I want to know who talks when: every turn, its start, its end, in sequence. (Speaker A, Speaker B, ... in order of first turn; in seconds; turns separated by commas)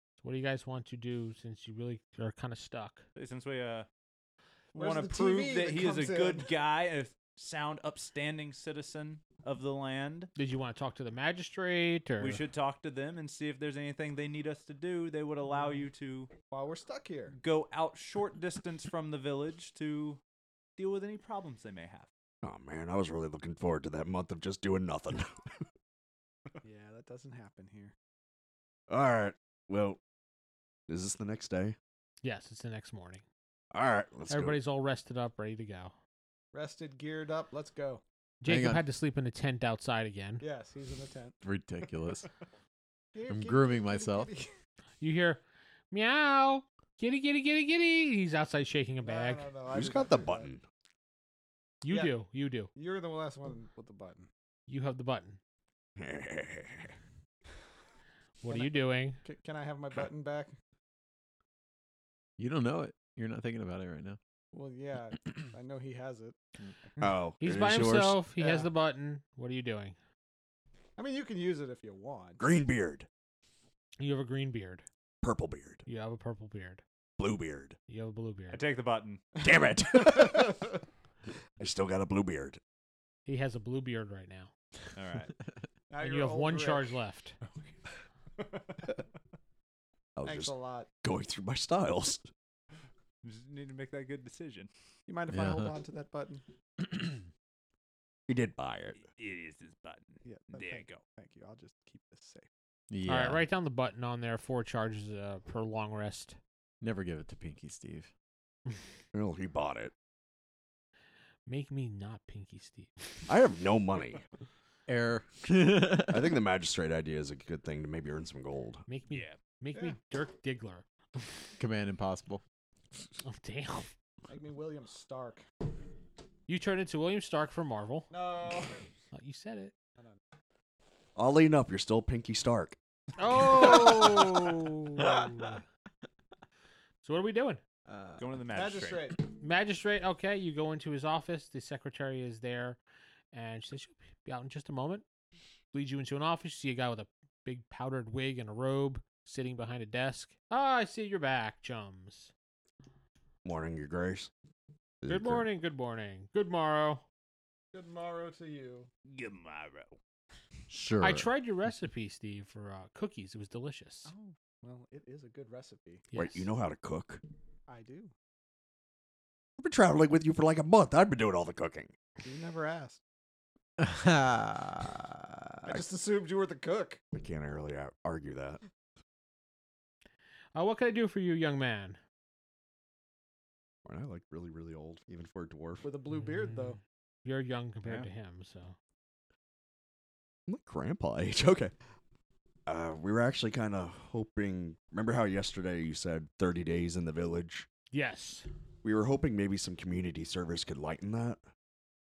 Speaker A: 0.2-3.0, Speaker B: 3.1-3.9, Speaker B: 4.7-10.3, Speaker C: 4.7-6.5, Speaker A: 10.3-12.4, Speaker B: 12.2-16.3, Speaker C: 16.5-17.4, Speaker B: 17.4-20.2, Speaker B: 20.8-22.1, Speaker D: 22.4-25.6, Speaker C: 26.6-27.9, Speaker D: 28.9-30.0, Speaker D: 30.9-31.8, Speaker A: 32.2-33.2, Speaker D: 33.7-34.6, Speaker A: 34.3-35.9, Speaker C: 36.5-38.0, Speaker A: 38.4-40.4, Speaker E: 38.5-38.8, Speaker C: 40.4-41.4, Speaker E: 41.4-42.2, Speaker C: 43.1-44.5, Speaker E: 43.3-44.3, Speaker A: 45.0-49.5, Speaker C: 49.0-50.5, Speaker D: 49.7-50.6, Speaker A: 51.8-52.7, Speaker C: 51.9-52.1, Speaker C: 52.7-54.3, Speaker A: 54.7-55.4, Speaker D: 56.0-56.9, Speaker A: 58.4-59.2, Speaker C: 58.5-60.5, Speaker E: 62.4-64.2, Speaker C: 64.5-66.4, Speaker D: 67.0-68.2, Speaker A: 67.4-70.0, Speaker C: 68.4-68.7, Speaker C: 71.0-72.4, Speaker D: 72.4-73.1, Speaker A: 74.0-74.8, Speaker D: 75.2-75.8, Speaker A: 75.8-76.8, Speaker D: 77.2-77.8, Speaker A: 77.9-78.6, Speaker B: 78.5-79.2, Speaker D: 79.4-80.7, Speaker D: 81.6-82.6, Speaker A: 83.2-84.5, Speaker B: 84.9-85.3, Speaker C: 85.9-87.0, Speaker A: 86.0-87.4, Speaker D: 90.2-92.3, Speaker C: 90.2-90.9, Speaker B: 93.2-94.7, Speaker C: 95.1-96.4, Speaker E: 95.3-95.7, Speaker D: 98.3-99.0, Speaker B: 99.0-101.0, Speaker C: 100.2-102.5, Speaker E: 102.9-103.4, Speaker A: 103.0-106.4, Speaker E: 106.8-108.1, Speaker D: 109.1-109.9, Speaker A: 111.5-113.1, Speaker D: 113.3-114.2, Speaker E: 114.9-116.4, Speaker D: 116.0-118.8, Speaker A: 118.9-121.4, Speaker B: 119.1-119.4, Speaker E: 121.6-122.4, Speaker A: 123.2-123.9, Speaker C: 124.3-125.4, Speaker A: 126.5-128.1, Speaker C: 128.1-128.8, Speaker A: 129.1-129.7, Speaker D: 131.2-132.8, Speaker A: 133.2-135.6, Speaker A: 137.0-137.6, Speaker E: 137.9-138.2, Speaker B: 138.2-139.1, Speaker C: 138.5-139.2, Speaker A: 139.2-142.8, Speaker A: 143.3-145.0, Speaker A: 145.7-152.3, Speaker D: 153.4-154.3, Speaker D: 155.0-155.4, Speaker A: 155.1-157.0, Speaker C: 157.7-158.9, Speaker B: 159.0-160.0, Speaker E: 160.7-161.3, Speaker A: 161.0-164.1, Speaker C: 164.1-166.0, Speaker A: 166.1-166.5, Speaker D: 166.1-167.2, Speaker C: 167.7-168.1, Speaker D: 169.6-171.9, Speaker C: 172.2-173.0, Speaker E: 173.8-175.6, Speaker C: 175.6-177.0, Speaker D: 177.1-178.6, Speaker A: 180.5-182.0, Speaker D: 183.8-185.8, Speaker C: 185.8-186.8, Speaker A: 186.1-188.8, Speaker D: 190.5-191.7, Speaker D: 192.7-197.7, Speaker A: 197.9-198.5, Speaker D: 198.8-201.4